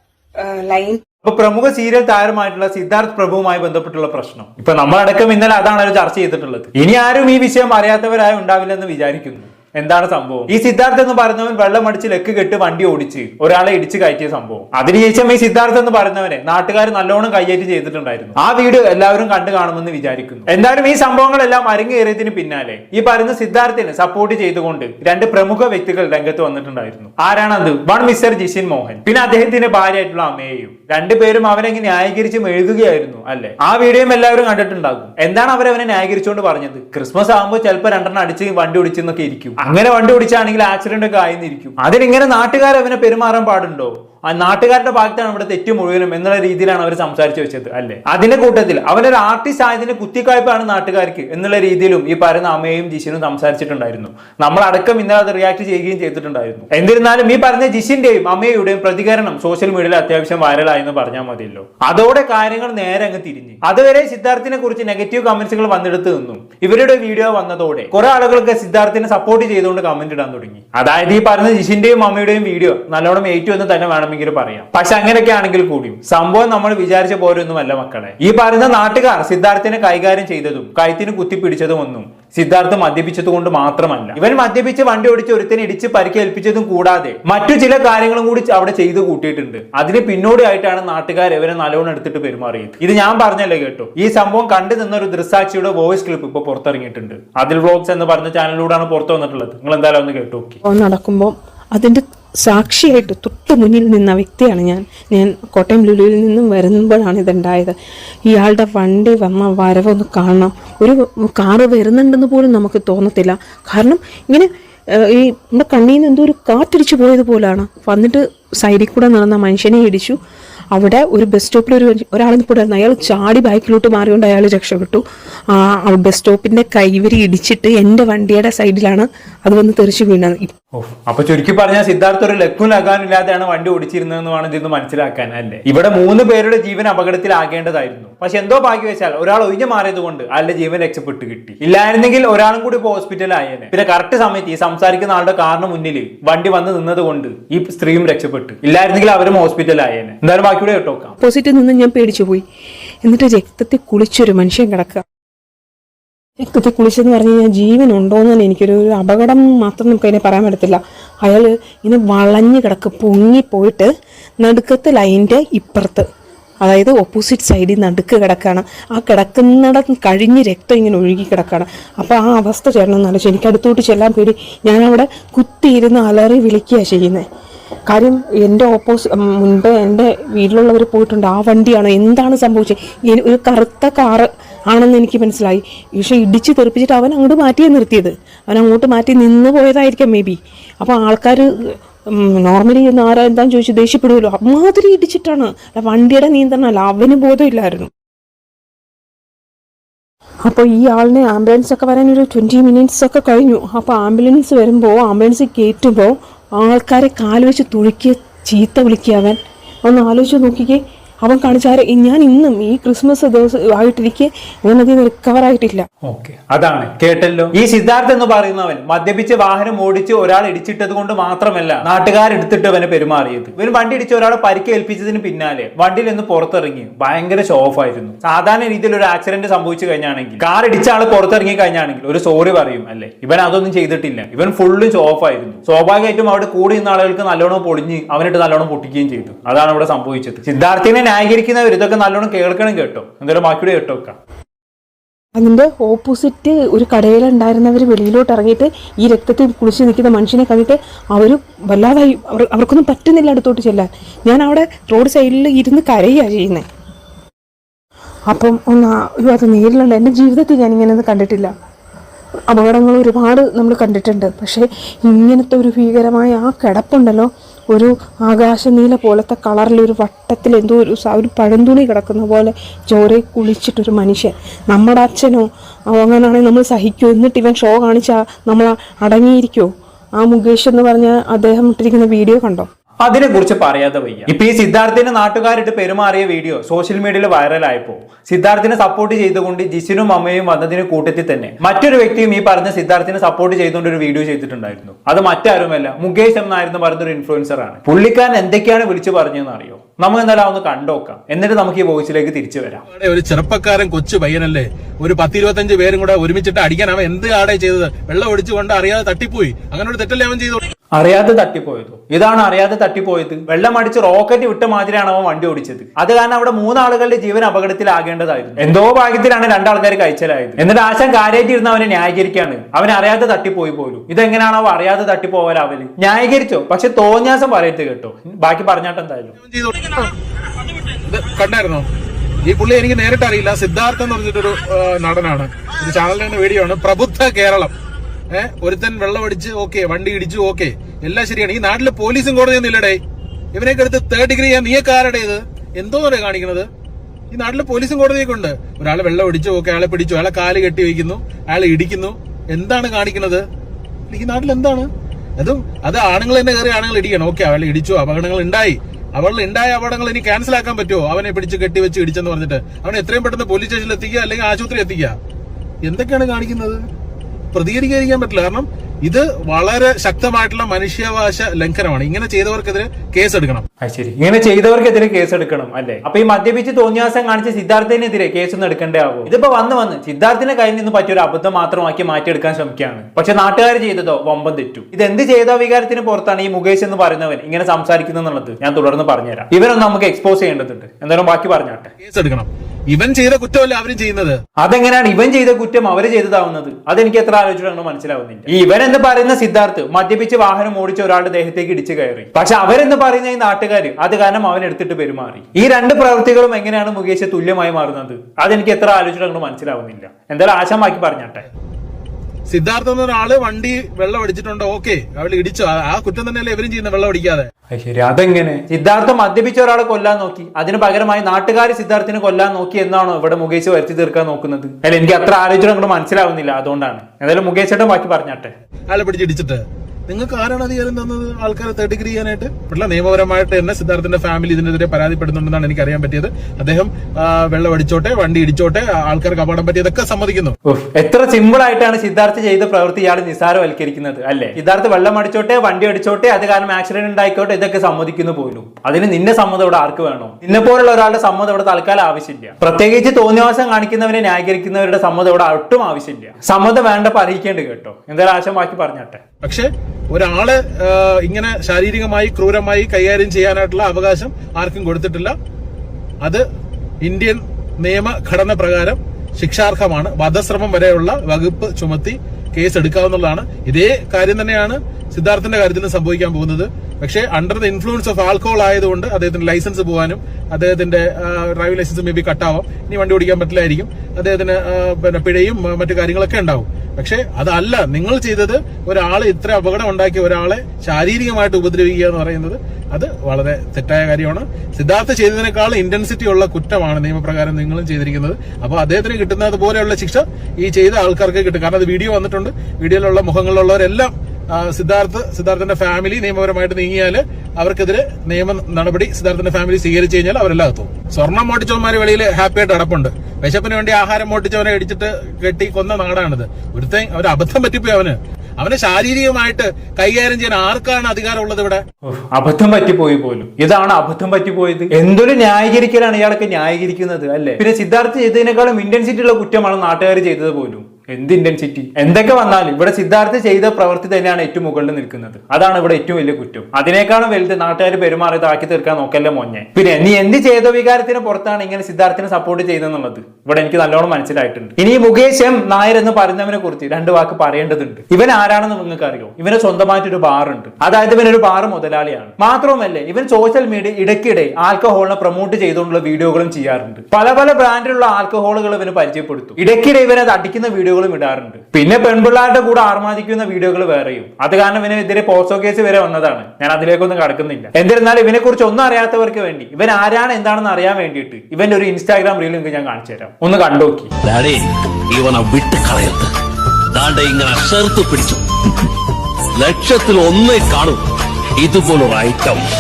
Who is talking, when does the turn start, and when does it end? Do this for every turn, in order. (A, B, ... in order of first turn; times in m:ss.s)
0:00.4-0:01.0 A
0:01.2-1:40.6 B
1:40.6-2:00.2 A
2:00.7-2:10.6 A
2:10.7-2:31.2 B
2:31.2-2:32.4 A
2:33.0-2:35.0 A
2:36.4-2:46.1 A
2:46.6-2:57.2 A
2:57.9-3:17.9 A
3:20.4-3:35.9 A
3:36.0-4:04.2 B
4:05.4-4:16.7 A
4:18.3-4:21.5 A
4:22.5-4:42.7 A
4:43.0-5:02.8 B
5:02.9-5:10.6 C
5:10.9-5:29.4 B
5:29.4-5:30.1 C
5:30.8-5:31.9 C
5:32.4-5:37.7 C
5:38.3-5:43.0 C
5:43.5-5:46.7 C
5:47.3-5:53.4 C
5:54.1-6:05.2 C
6:05.8-6:06.8 C
6:07.5-6:13.6 C
6:13.8-6:31.9 B
6:32.0-6:34.4 C
6:34.6-6:51.4 B
6:52.5-6:57.5 C
6:57.7-7:08.5 B
7:08.9-7:20.6 C
7:20.6-7:39.2 B
7:39.4-7:45.4 C
7:47.0-8:41.8 C
8:42.0-9:34.1 B
9:34.2-9:36.3 D
9:36.9-9:38.4 D
9:39.6-9:41.0 D
9:41.6-9:42.6 D